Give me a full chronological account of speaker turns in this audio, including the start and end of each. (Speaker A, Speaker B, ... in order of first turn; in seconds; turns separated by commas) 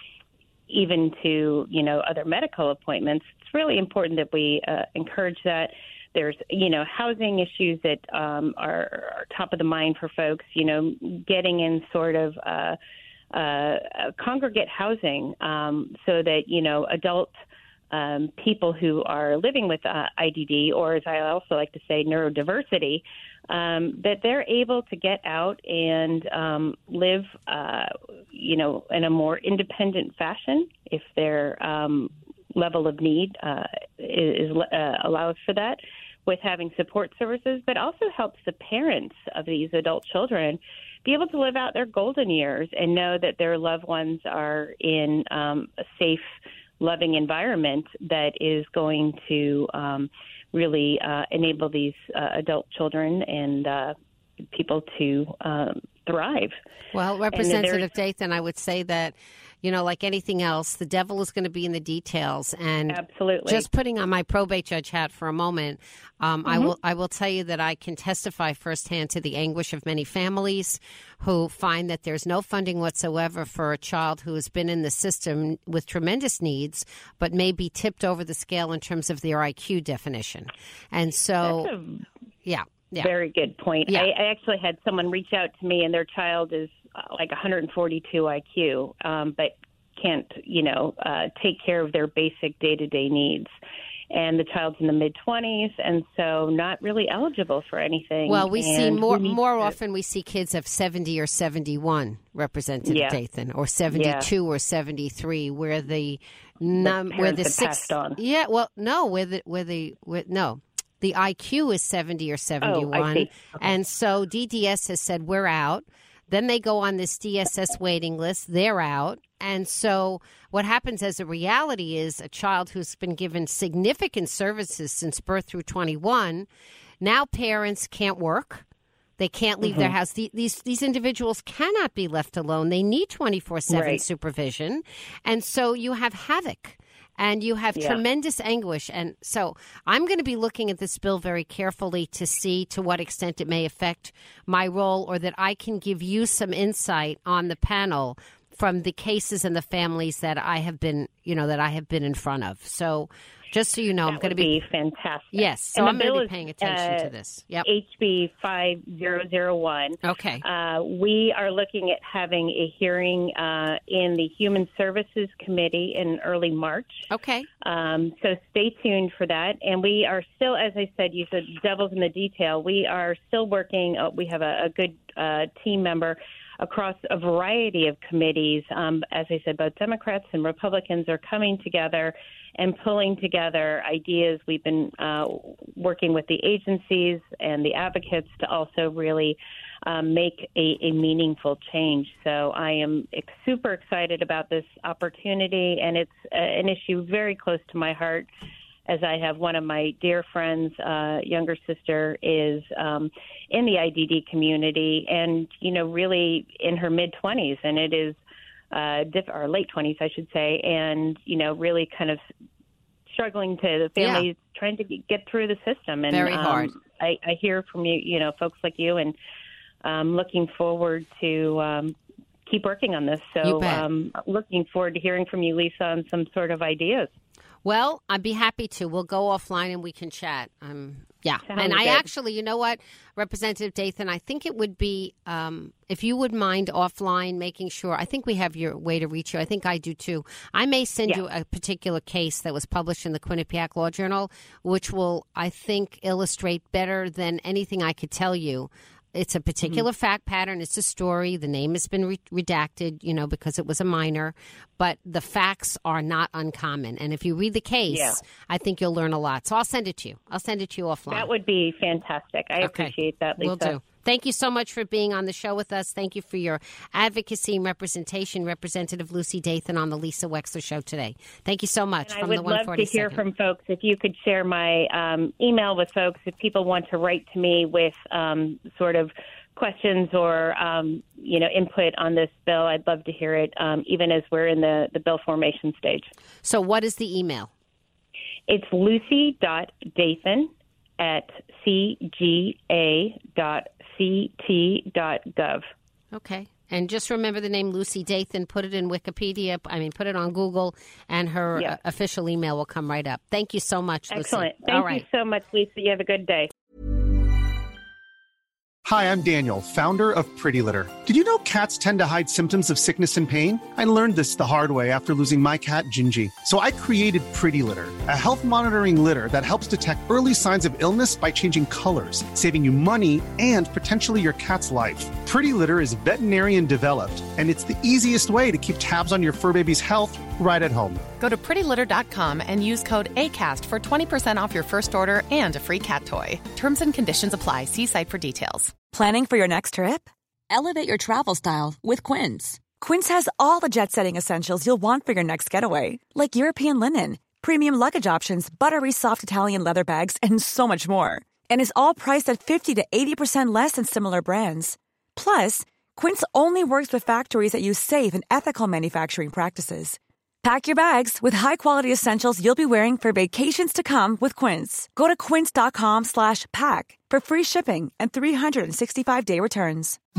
Speaker A: 0.7-12.8, Speaker A: 13.3-17.3, Speaker A: 17.9-53.9, Speaker A: 54.5-56.5, Speaker B: 56.9-81.7, Speaker A: 57.3-57.9, Speaker A: 62.9-63.7, Speaker A: 66.5-66.7, Speaker A: 81.4-82.0, Speaker B: 82.5-83.1, Speaker A: 83.0-93.5, Speaker A: 94.1-99.7, Speaker B: 98.3-126.5, Speaker A: 102.8-103.2, Speaker A: 103.9-104.3, Speaker A: 106.8-108.2, Speaker A: 112.6-113.7, Speaker B: 127.0-128.6, Speaker B: 129.2-154.5, Speaker A: 129.6-129.9, Speaker A: 133.7-134.0, Speaker A: 154.1-157.1, Speaker B: 155.3-157.7, Speaker A: 157.6-167.1, Speaker B: 160.0-160.4, Speaker B: 167.1-167.5, Speaker A: 167.6-198.3, Speaker A: 198.9-208.2, Speaker A: 208.7-212.2, Speaker A: 213.1-219.1, Speaker B: 214.0-214.3, Speaker B: 216.1-216.7, Speaker A: 219.8-221.9, Speaker A: 222.5-227.1, Speaker B: 223.4-223.8, Speaker B: 227.6-261.3, Speaker A: 231.4-232.1, Speaker A: 257.9-258.2, Speaker A: 261.1-263.8, Speaker B: 262.6-273.2, Speaker A: 272.1-286.1, Speaker B: 286.4-287.5, Speaker A: 288.5-295.7, Speaker B: 296.1-305.0, Speaker A: 304.1-306.5, Speaker C: 308.8-331.0, Speaker D: 331.2-338.7, Speaker E: 338.9-370.0